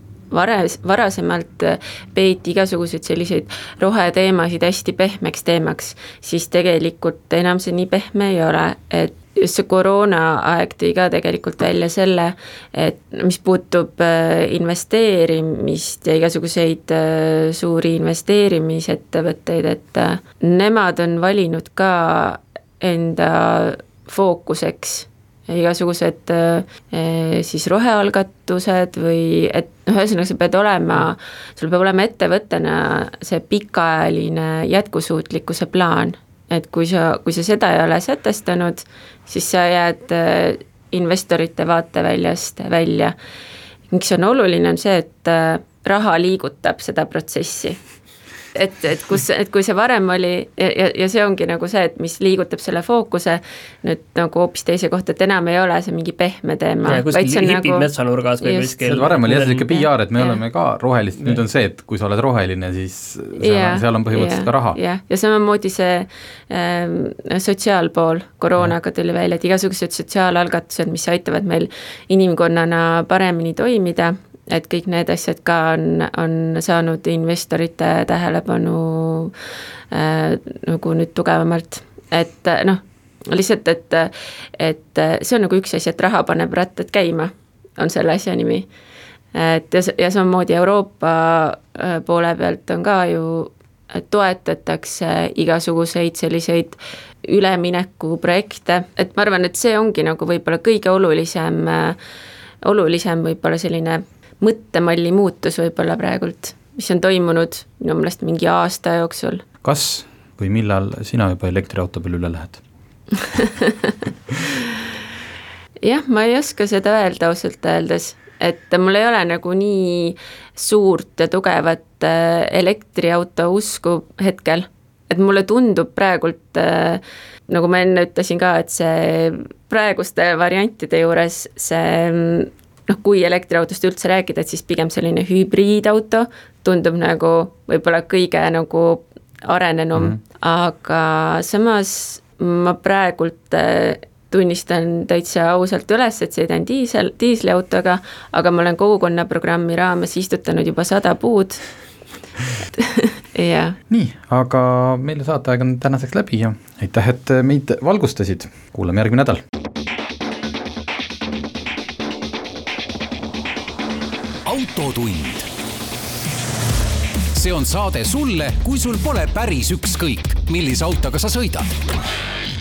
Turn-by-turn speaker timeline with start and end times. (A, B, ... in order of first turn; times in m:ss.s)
0:00.3-0:43.1 A
0:43.9-0:47.8 A
0:48.6-0:57.9 A
0:56.8-0:59.7 B
0:58.4-0:59.0 A
0:58.8-1:04.8 C
0:59.7-1:00.4 A
1:03.4-1:19.3 A
1:19.9-1:28.7 A
1:29.3-1:42.0 A
1:42.6-1:49.4 A
1:49.6-1:52.6 C
1:53.2-1:54.0 A
1:55.8-2:31.6 A
2:32.8-2:33.8 A
2:33.9-2:39.4 C
2:44.4-2:45.5 D
2:47.3-2:51.7 D